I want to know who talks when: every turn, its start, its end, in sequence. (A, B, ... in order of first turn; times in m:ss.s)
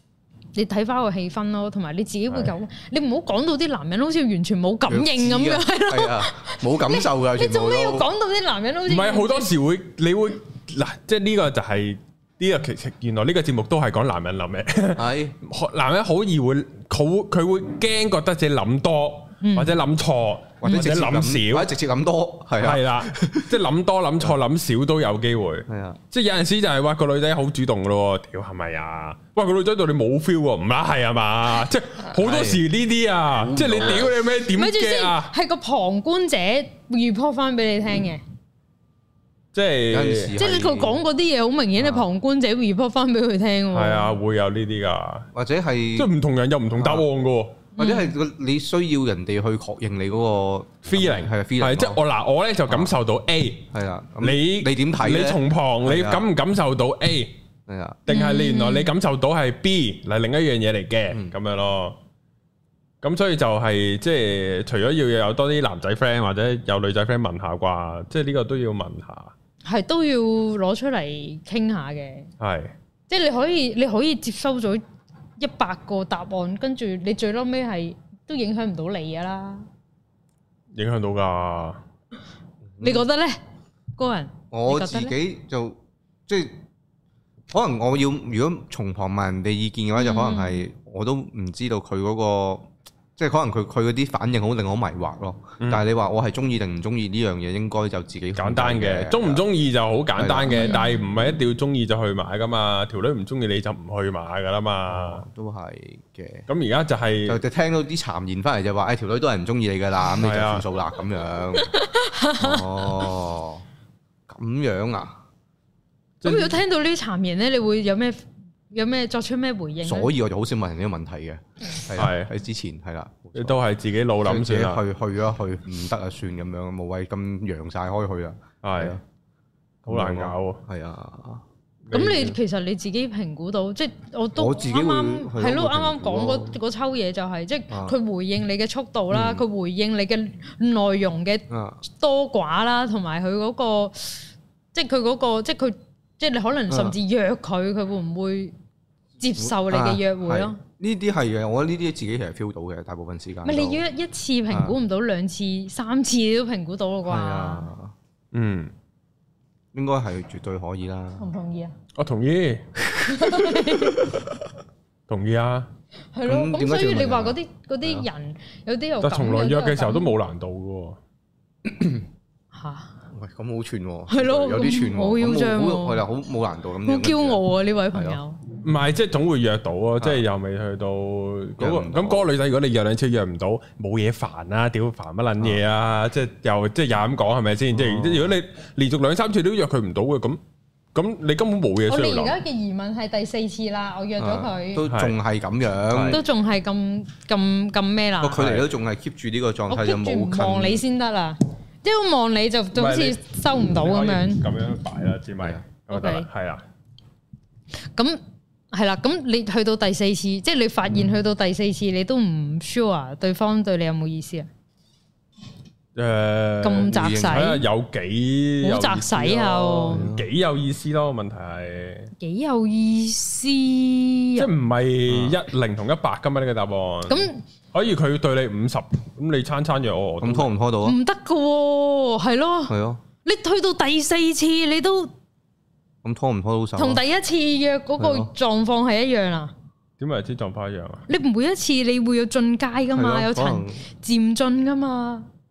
0:00.5-0:09.5 A
0:04.9-0:08.1 B
0:08.9-0:21.7 C
0:15.0-0:15.3 B
0:19.4-0:19.8 A
0:20.6-0:23.5 B
0:22.6-0:35.3 C
0:25.7-0:26.0 B
0:32.1-0:32.6 B
0:33.3-0:34.2 B
0:34.5-0:38.2 A
0:39.5-0:40.3 C
0:39.9-0:41.0 B
0:40.4-0:44.1 A
0:41.8-0:42.0 B
0:43.7-0:45.3 C
0:45.3-0:46.1 B
0:46.0-0:47.6 C
0:46.8-0:47.0 B
0:47.8-0:48.1 A
0:47.8-0:52.0 B
0:50.8-0:53.6 C
0:52.7-0:52.9 B
0:53.7-0:56.3 B
0:54.2-0:57.3 C
0:57.7-0:58.0 B
0:58.0-1:02.0 C
0:58.1-0:58.9 A
1:01.1-1:01.4 B
1:03.0-1:09.3 C
1:09.6-1:12.3 A
1:12.4-1:12.7 C
1:13.1-1:14.8 A
1:15.4-1:19.7 A
1:20.7-1:21.8 C
1:22.8-1:23.1 B
1:22.8-1:23.4 A
1:24.0-1:25.1 A
1:24.5-1:26.6 B
1:27.5-1:39.4 B
1:30.0-1:30.6 A
1:35.6-1:35.8 C
1:38.4-1:45.2 C
1:40.2-1:40.8 B
1:40.5-1:41.0 A
1:44.9-1:46.4 B
1:46.5-1:47.4 C
1:47.2-1:51.7 B
1:50.2-1:50.6 C
1:51.6-1:53.1 A
1:52.4-1:53.6 B
1:54.3-1:55.2 B
1:56.2-1:56.6 C
1:56.2-2:00.1 A
1:59.8-2:03.6 B
2:01.9-2:02.3 C
2:03.3-2:04.8 C
2:04.2-2:09.0 B
2:08.6-2:09.0 C
2:09.8-2:11.4 B
2:09.8-2:10.6 C
2:11.9-2:12.3 C
2:11.9-2:24.2 A
2:14.4-2:16.6 B
2:17.7-2:18.0 B
2:19.1-2:19.4 B
2:21.5-2:21.8 B
2:24.7-2:28.5 A
2:26.7-2:27.0 B
2:29.2-2:30.6 A
2:29.4-2:33.8 B
2:33.4-2:37.7 A
2:34.5-2:34.8 B
2:37.0-2:37.9 B
2:38.3-2:38.7 C
2:39.7-2:41.3 B
2:41.2-2:41.7 A
2:42.0-2:44.4 C
2:43.0-2:44.1 A
2:45.1-2:45.7 C
2:46.1-2:50.1 A
2:46.2-2:48.1 B
2:49.0-2:51.0 C
2:52.5-2:53.0 A
2:53.1-2:57.4 B
2:54.1-2:56.0 A
2:56.8-2:58.4 A
2:57.9-2:58.2 B
2:58.6-3:10.4 C
3:01.6-3:02.3 B
3:07.7-3:08.4 B
3:10.9-3:12.4 C
3:11.9-3:14.9 A
3:14.2-3:16.2 B
3:14.9-3:15.1 C
3:15.9-3:16.2 C
3:16.1-3:18.5 A
3:18.2-3:20.8 B
3:18.4-3:18.6 C
3:19.7-3:24.4 A
3:22.8-3:26.6 C
3:25.9-3:26.3 A
3:28.7-3:34.5 A
3:35.9-3:42.1 C
3:36.6-3:37.6 A
3:36.8-3:37.5 B
3:38.6-3:40.0 A
3:39.9-3:40.3 B
3:42.2-3:44.5 A
3:44.4-3:50.5 C
3:45.1-3:45.4 B
3:47.1-3:47.4 A
3:50.2-3:51.0 B
3:50.8-3:55.1 A
3:52.7-3:53.0 B
3:56.0-3:57.0 B
3:56.8-3:59.5 A
3:58.0-3:58.3 B
4:00.0-4:01.0 C
4:01.1-4:05.3 A
4:02.9-4:03.8 B